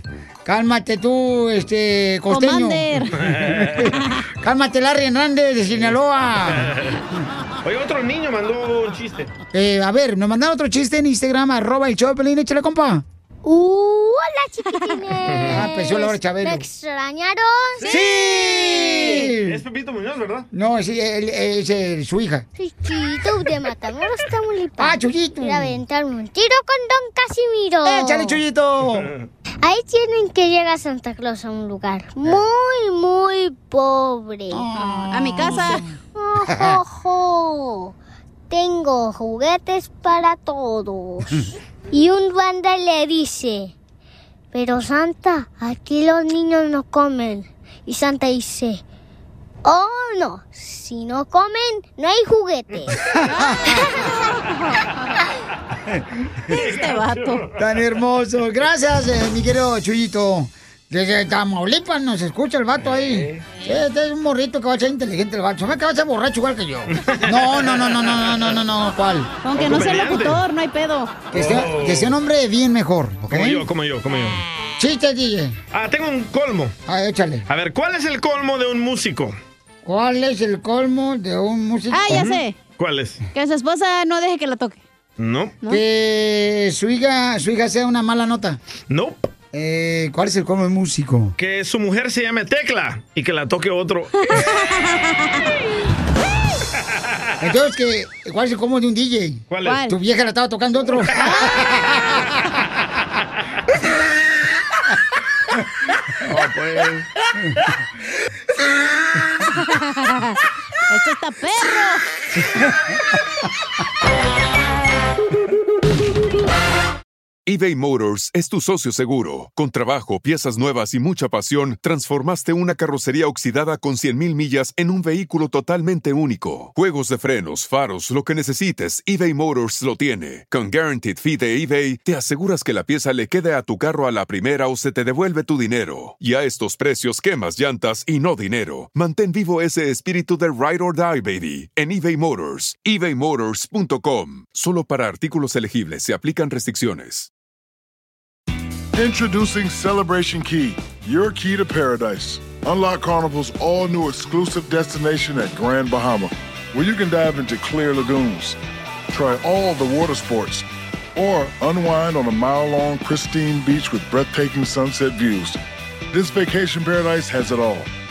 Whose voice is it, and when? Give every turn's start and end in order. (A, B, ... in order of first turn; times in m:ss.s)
0:00.4-0:06.8 A
0:02.3-0:03.2 B
0:03.2-0:03.9 C
0:06.6-0:06.9 C
0:07.6-0:09.3 C
0:09.5-0:13.0 A
0:13.4-0:17.9 D
0:15.2-0:15.6 C
0:15.5-0:16.6 A
0:17.8-0:19.1 B
0:17.9-0:19.6 A
0:19.4-0:20.5 C
0:20.5-0:22.4 A
0:22.6-0:28.3 D
0:24.8-0:25.8 A
0:27.8-0:29.1 A
0:29.6-0:34.7 D
0:34.5-0:35.9 A
0:34.8-0:35.8 B
0:36.2-0:38.0 D
0:38.5-0:43.7 D
0:44.5-0:48.8 D
0:49.6-0:53.0 D
0:53.3-0:54.9 B
0:53.4-0:54.0 A
0:56.5-0:57.5 C
0:56.5-0:57.4 B
0:57.6-1:09.3 A
1:07.0-1:07.8 C
1:09.4-1:11.1 B
1:09.5-1:10.4 C
1:11.3-1:13.6 A
1:11.3-1:12.1 C
1:13.3-1:14.4 C
1:14.8-1:15.5 A
1:15.7-1:16.7 C
1:16.9-1:17.4 A
1:17.5-1:19.4 C
1:19.9-1:22.3 A
1:21.9-1:22.6 B
1:22.1-1:23.2 C
1:23.3-1:24.8 B
1:25.2-1:25.6 C
1:25.7-1:28.6 A
1:28.9-1:29.2 C
1:29.5-1:31.3 A
1:31.4-1:34.1 C
1:34.3-1:34.9 B
1:37.4-1:41.6 A
1:39.5-1:39.8 C
1:39.6-1:39.9 B
1:41.2-1:41.5 B
1:46.3-1:47.0 C
1:49.7-1:50.4 B
1:50.9-1:52.0 B
1:57.5-2:27.3 E
2:29.0-2:38.6 F
2:39.1-2:45.6 F
2:46.1-2:47.9 F